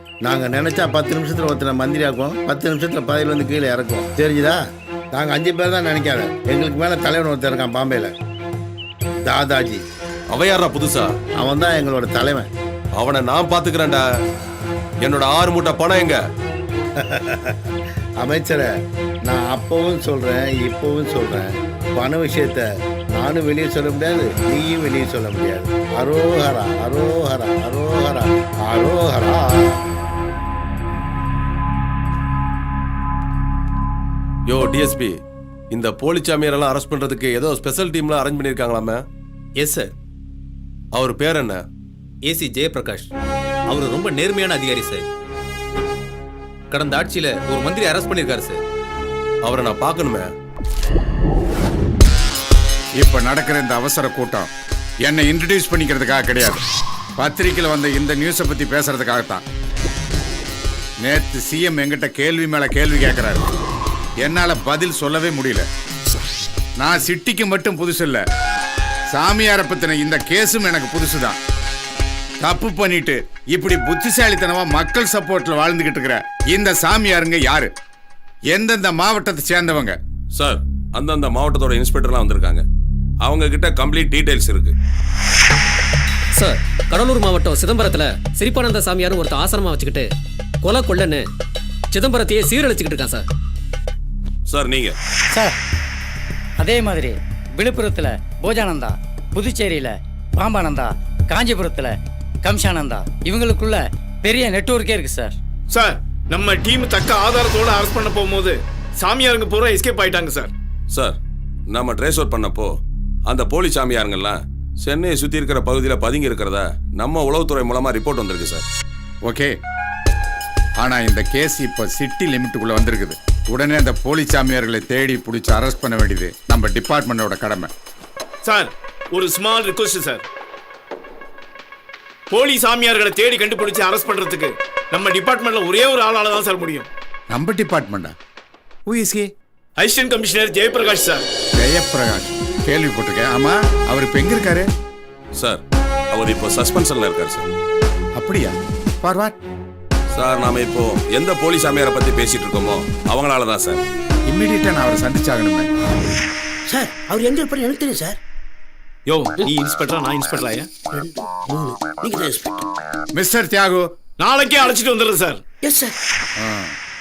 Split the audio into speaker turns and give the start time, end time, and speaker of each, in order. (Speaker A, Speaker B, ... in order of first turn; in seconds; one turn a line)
Speaker A: 0.2-4.6
Speaker A: 5.1-8.1
Speaker A: 9.3-9.8
Speaker B: 10.3-11.1
Speaker A: 11.4-12.5
Speaker B: 13.0-14.0
Speaker B: 15.1-16.2
Speaker A: 17.0-18.7
Speaker A: 19.3-29.8
Speaker B: 34.5-35.2
Speaker B: 35.8-39.0
Speaker C: 39.6-39.9
Speaker B: 41.1-41.6
Speaker C: 42.3-43.1
Speaker C: 43.7-45.0
Speaker C: 46.7-48.6
Speaker B: 49.5-50.3
Speaker D: 53.0-54.5
Speaker D: 55.1-56.6
Speaker D: 57.2-59.4
Speaker D: 61.0-63.5
Speaker D: 64.2-65.7
Speaker D: 66.8-68.2
Speaker D: 69.1-71.4
Speaker D: 72.4-77.7
Speaker D: 78.5-80.0
Speaker B: 80.4-82.6
Speaker B: 83.2-84.7
Speaker E: 86.3-90.1
Speaker E: 90.6-91.2
Speaker E: 91.9-93.3
Speaker B: 94.5-95.0
Speaker F: 96.7-101.9
Speaker F: 102.5-105.3
Speaker G: 105.7-110.5
Speaker B: 111.7-112.7
Speaker B: 113.3-118.7
Speaker D: 119.3-119.5
Speaker D: 120.8-127.7
Speaker G: 128.4-130.2
Speaker G: 132.3-136.9
Speaker D: 137.3-138.1
Speaker D: 138.9-139.3
Speaker G: 139.8-141.2
Speaker D: 141.6-144.7
Speaker B: 145.4-145.6
Speaker B: 146.1-147.5
Speaker D: 148.2-149.4
Speaker B: 150.1-153.8
Speaker D: 154.3-155.7
Speaker H: 156.7-158.2
Speaker G: 159.1-160.7
Speaker H: 160.9-162.7
Speaker D: 163.1-163.8
Speaker G: 164.2-165.4
Speaker H: 165.6-165.9
Speaker D: 166.4-166.7